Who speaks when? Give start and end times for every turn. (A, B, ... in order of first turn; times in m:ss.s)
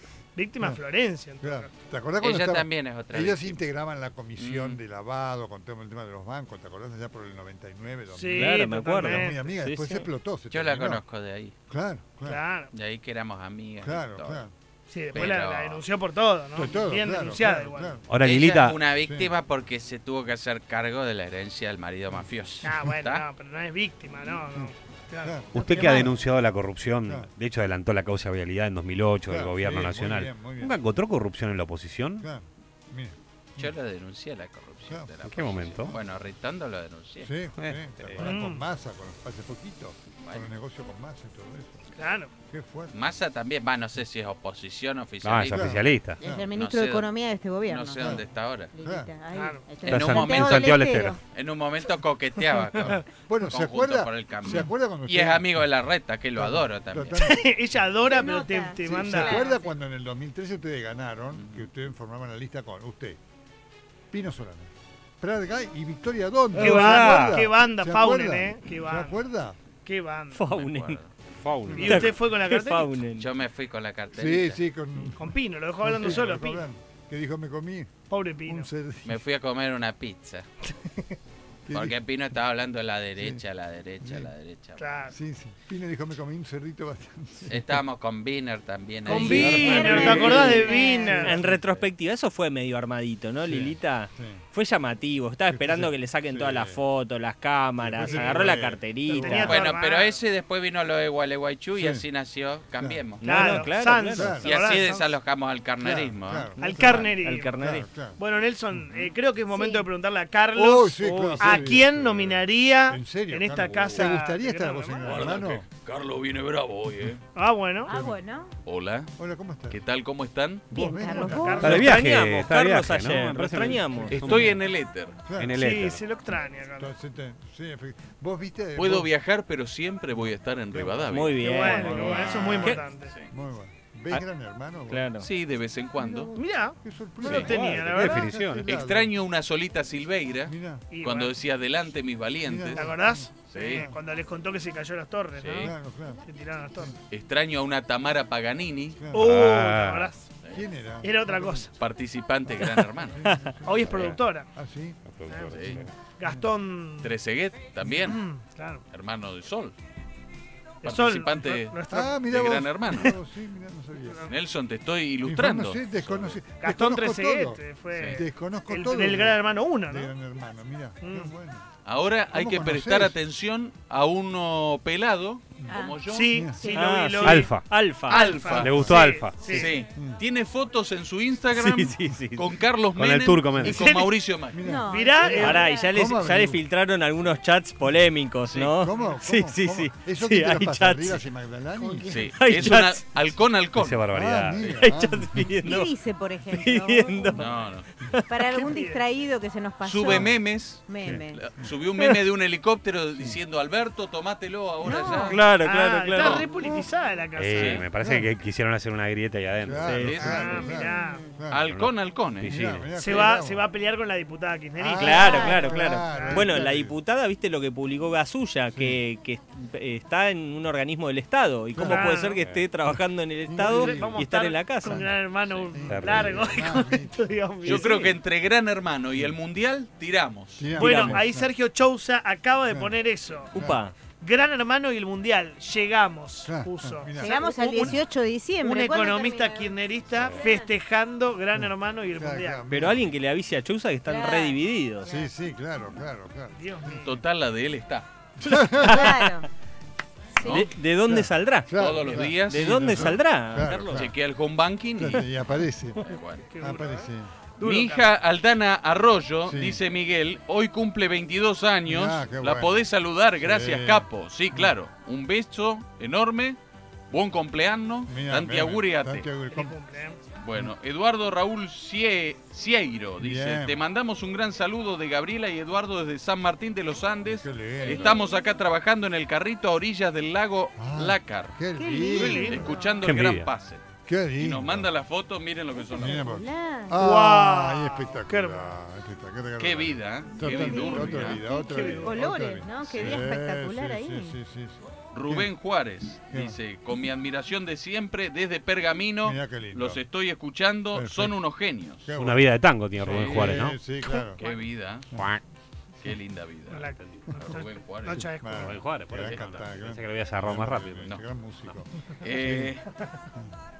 0:00.4-0:01.7 A
0:01.4-0:11.0 B
0:02.2-0:03.6 C
0:04.4-0:04.8 C
0:08.1-0:09.4 A
0:08.3-0:10.1 D
0:10.5-0:11.5 C
0:11.7-0:12.4 B
0:12.2-0:12.7 A
0:12.7-0:14.4 C
0:13.8-0:14.5 B
0:14.9-0:18.0 A
0:15.1-0:15.8 C
0:16.5-0:18.1 B
0:18.1-0:18.8 E
0:18.2-0:23.2 C
0:19.0-0:19.3 B
0:22.6-0:26.1 A
0:24.5-0:26.1 B
0:25.5-0:32.3 E
0:29.3-0:30.8 B
0:32.2-0:33.7 B
0:33.6-0:37.4 C
0:35.3-0:35.9 E
0:37.2-0:41.9 B
0:37.5-0:38.2 E
0:38.0-0:38.3 C
0:38.2-0:38.6 A
0:42.0-0:42.3 A
0:42.5-0:42.9 B
0:42.9-0:47.1 C
0:45.2-0:46.2 E
0:45.5-0:46.5 B
0:46.2-0:48.2 F
0:47.6-0:48.7 C
0:48.0-0:48.3 B
0:48.7-0:51.2 F
0:48.8-0:49.1 B
0:49.3-0:49.8 A
0:49.8-0:50.8 C
0:49.9-0:51.2 E
0:51.3-0:57.2 C
0:52.9-0:55.7 B
0:56.4-0:57.4 B
0:57.2-0:59.4 A
0:58.0-0:59.8 F
0:58.9-1:03.2 B
1:04.1-1:09.6 B
1:06.6-1:07.4 D
1:06.6-1:09.2 A
1:09.8-1:10.4 A
1:10.3-1:11.0 D
1:10.5-1:11.1 C
1:11.4-1:12.1 E
1:11.7-1:13.0 A
1:11.7-1:13.3 D
1:13.1-1:14.6 C
1:14.1-1:19.2 B
1:15.2-1:16.6 A
1:18.1-1:18.7 A
1:19.0-1:20.4 C
1:21.7-1:22.0 B
1:21.7-1:25.0 C
1:24.0-1:24.3 B
1:24.8-1:25.1 A
1:25.1-1:27.8 B
1:27.5-1:29.8 C
1:29.1-1:31.4 A
1:29.2-1:29.8 E
1:29.3-1:30.1 D
1:29.4-1:31.4 F
1:29.9-1:30.5 G
1:31.2-1:39.5 D
1:31.3-1:31.6 B
1:33.4-1:34.4 B
1:35.5-1:36.8 B
1:37.8-1:39.7 B
1:38.0-1:38.5 A
1:39.2-1:40.2 A
1:39.4-1:43.2 C
1:41.8-1:42.0 B
1:42.8-1:44.6 B
1:43.2-1:44.3 D
1:43.2-1:45.1 A
1:44.4-1:46.6 C
1:45.8-1:48.2 B
1:46.6-1:47.8 D
1:46.6-1:47.5 A
1:48.2-1:55.4 A
1:48.8-1:49.0 B
1:49.5-1:49.8 F
1:50.5-1:55.6 B
1:51.0-1:51.6 D
1:55.0-1:57.2 G
1:57.4-1:57.9 A
1:57.8-1:58.5 F
1:57.9-1:58.2 B
1:58.6-1:59.1 G
1:59.2-1:59.8 B
1:59.7-2:00.8 G
2:00.7-2:01.8 F
2:00.7-2:02.0 B
2:00.8-2:02.0 A
2:01.6-2:04.6 E
2:01.6-2:04.3 D
2:04.0-2:04.4 B
2:04.1-2:05.2 G
2:05.3-2:05.6 B
2:05.4-2:06.0 E
2:05.6-2:06.9 A
2:06.8-2:09.1 B
2:08.8-2:13.3 G
2:10.2-2:12.8 B
2:11.1-2:12.8 D
2:11.4-2:13.1 A
2:13.3-2:15.1 B
2:14.9-2:15.3 D
2:15.2-2:16.3 G
2:16.0-2:19.1 B
2:16.3-2:18.4 A
2:17.4-2:18.7 E
2:18.7-2:22.9 G
2:20.5-2:20.9 B
2:20.9-2:21.3 A
2:22.4-2:24.0 B
2:22.7-2:25.7 A
2:23.5-2:23.9 G
2:25.4-2:25.7 G
2:25.6-2:26.2 B
2:26.2-2:27.0 A
2:27.1-2:29.0 G
2:29.0-2:29.3 B
2:29.1-2:30.2 A
2:29.1-2:30.1 E
2:30.5-2:31.7 B
2:31.0-2:31.7 A
2:31.8-2:33.2 G
2:32.6-2:35.0 B
2:33.6-2:34.5 A
2:35.0-2:35.9 E
2:35.3-2:37.2 A
2:35.5-2:35.8 G
2:35.6-2:36.5 B
2:37.0-2:38.2 G
2:37.8-2:38.8 A
2:38.9-2:39.7 G
2:40.8-2:42.2 A
2:40.8-2:43.1 G
2:41.9-2:44.3 B
2:44.3-2:46.4 G
2:45.2-2:51.6 B
2:46.6-2:50.1 A
2:47.9-2:48.2 G
2:51.0-2:51.3 A
2:51.8-2:56.4 G
2:52.3-2:53.2 B
2:55.7-2:56.0 F
2:56.1-2:59.7 A
2:56.3-2:56.6 B
2:56.7-2:58.4 D
2:57.2-2:57.9 E
2:58.0-3:04.7 G
2:58.5-2:59.7 E
2:58.7-3:00.2 B
3:01.5-3:02.4 D
3:01.8-3:02.1 B
3:02.9-3:04.0 E
3:03.6-3:06.6 B
3:03.6-3:04.2 A
3:04.6-3:05.9 F
3:04.9-3:05.7 A
3:05.4-3:11.2 D
3:08.8-3:12.1 B
3:11.8-3:12.3 F
3:12.1-3:14.0 G
3:12.3-3:13.0 D
3:13.8-3:14.8 E
3:14.1-3:15.4 B
3:14.8-3:15.9 D
3:15.6-3:17.5 F
3:16.5-3:17.5 D
3:17.4-3:17.9 G
3:18.0-3:18.6 D
3:18.3-3:21.4 F
3:18.5-3:19.0 A
3:19.8-3:25.4 G
3:20.1-3:20.3 B
3:21.0-3:21.7 B
3:24.8-3:25.4 F
3:25.0-3:27.8 A
3:25.3-3:26.4 D
3:27.4-3:30.2 E
3:27.5-3:27.8 G
3:28.0-3:28.3 B
3:29.6-3:31.7 B
3:29.8-3:30.2 D
3:30.0-3:30.8 G
3:30.2-3:31.2 A
3:30.5-3:31.4 F
3:31.5-3:32.5 G
3:31.6-3:32.9 E
3:32.4-3:33.7 B
3:32.9-3:36.7 A
3:34.8-3:36.9 B
3:35.0-3:45.0 D
3:35.2-3:35.8 F
3:38.7-3:39.0 B
3:41.7-3:42.2 B
3:41.8-3:42.4 A
3:43.4-3:44.2 B
3:43.7-3:48.1 A
3:44.8-3:45.2 B
3:45.4-3:45.7 G
3:45.7-3:47.3 B
3:45.8-3:46.5 E
3:47.6-3:48.2 D
3:47.6-3:50.7 G
3:50.6-3:51.5 B
3:50.8-3:51.2 D
3:50.8-3:53.5 A
3:52.7-3:53.0 B
3:53.5-3:53.9 D
3:53.5-3:53.8 B
3:54.2-3:58.0 A
3:56.4-3:58.0 B
3:57.2-4:00.7 F
3:58.6-4:02.6 A
4:00.1-4:00.4 B
4:01.6-4:03.1 B
4:02.7-4:05.0 D
4:04.0-4:05.3 F
4:05.0-4:07.0 B
4:06.6-4:07.2 A
4:07.0-4:08.0 G
4:08.4-4:09.2 B
4:08.8-4:09.3 D
4:08.8-4:09.5 F
4:10.4-4:10.7 F
4:10.4-4:14.0 D
4:11.0-4:14.1 B
4:11.8-4:15.3 G
4:15.0-4:16.0 B
4:16.0-4:16.4 G
4:16.0-4:18.1 A
4:16.6-4:17.3 B
4:17.6-4:26.6 G
4:19.4-4:19.8 B
4:21.8-4:22.9 B
4:23.4-4:24.7 B
4:27.1-4:29.3 G
4:28.1-4:29.8 B
4:29.5-4:30.2 A
4:30.4-4:43.8 G
4:33.2-4:33.8 B
4:37.2-4:38.2 B
4:37.9-4:38.6 F
4:40.8-4:42.6 B
4:41.7-4:43.2 F
4:43.0-4:43.5 E
4:44.1-4:44.9 B
4:44.4-4:46.3 G
4:45.9-4:55.5 B
4:46.0-4:47.0 F
4:47.0-4:48.7 A
4:49.6-4:51.4 G
4:50.4-4:54.4 F
4:51.5-4:52.2 A
4:52.8-4:53.2 G
4:55.1-5:02.1 G
4:56.3-4:56.6 B
4:59.2-5:00.0 B
5:00.9-5:01.4 B
5:02.0-5:04.4 B
5:02.2-5:03.8 E
5:03.0-5:03.7 G
5:04.4-5:05.1 G
5:05.1-5:05.4 E
5:06.0-5:08.3 G
5:06.7-5:08.8 A
5:08.0-5:12.7 B
5:08.5-5:11.1 E
5:09.1-5:09.4 G
5:12.2-5:12.9 G